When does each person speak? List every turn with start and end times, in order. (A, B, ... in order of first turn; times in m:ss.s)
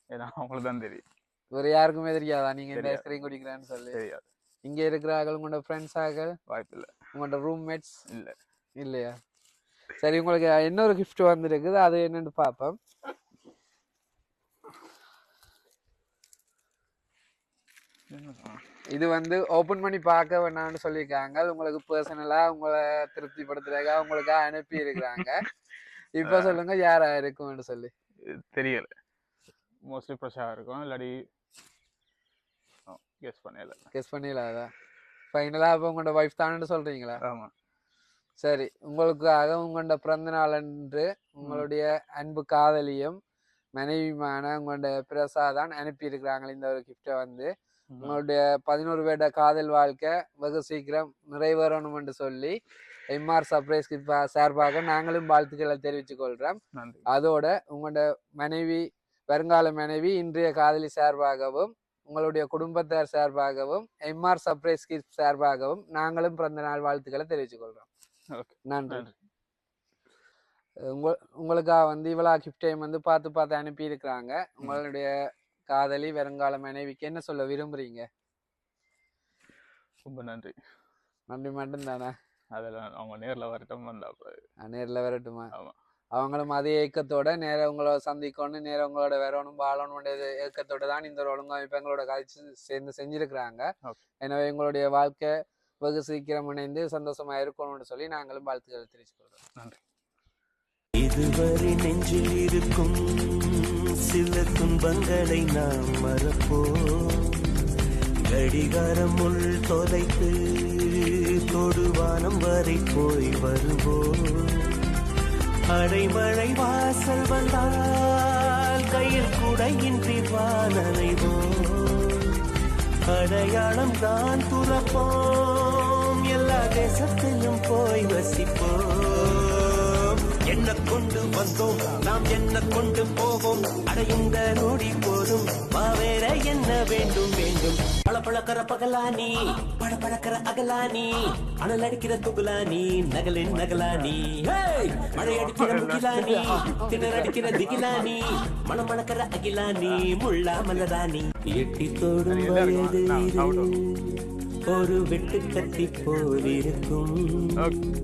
0:00.1-0:01.0 A
0:01.5-0:04.0 B
0:02.7-0:03.0 A
0:03.9-0:04.2 A
0:04.6-0:06.3 B
0:06.5-0:06.9 A
0:07.1-0:08.0 B
0:08.1-0:08.3 A
0:08.8-0:09.1 B
0:10.0-0:12.8 B
0:18.1-0:18.6 A
0:18.9-0:25.4 B
0:26.2-0:27.9 B
0:26.2-0:26.6 A
0:28.2-0:28.9 A
0:29.8-0:31.2 A
0:32.9-0:33.8 A
0:33.9-0:34.7 B
0:35.3-0:37.2 B
0:37.2-0:37.5 A
0:38.4-0:43.2 B
0:41.4-0:41.7 A
0:43.7-0:52.5 B
0:47.9-0:48.2 A
0:53.1-0:56.6 B
0:56.7-0:57.0 A
0:57.1-1:07.9 B
1:08.3-1:09.1 A
1:08.7-1:09.1 B
1:10.8-1:15.1 B
1:15.7-1:18.0 B
1:20.0-1:20.5 A
1:21.3-1:22.1 B
1:22.5-1:24.4 A
1:24.6-1:25.5 B
1:26.1-1:33.7 B
1:34.2-1:39.4 B
1:41.0-1:47.7 C
1:48.2-1:55.0 C
1:55.7-2:02.5 C
2:03.1-2:34.1 C
2:25.0-2:26.5 A
2:32.2-2:33.8 A
2:34.6-2:37.7 C
2:37.6-2:37.8 A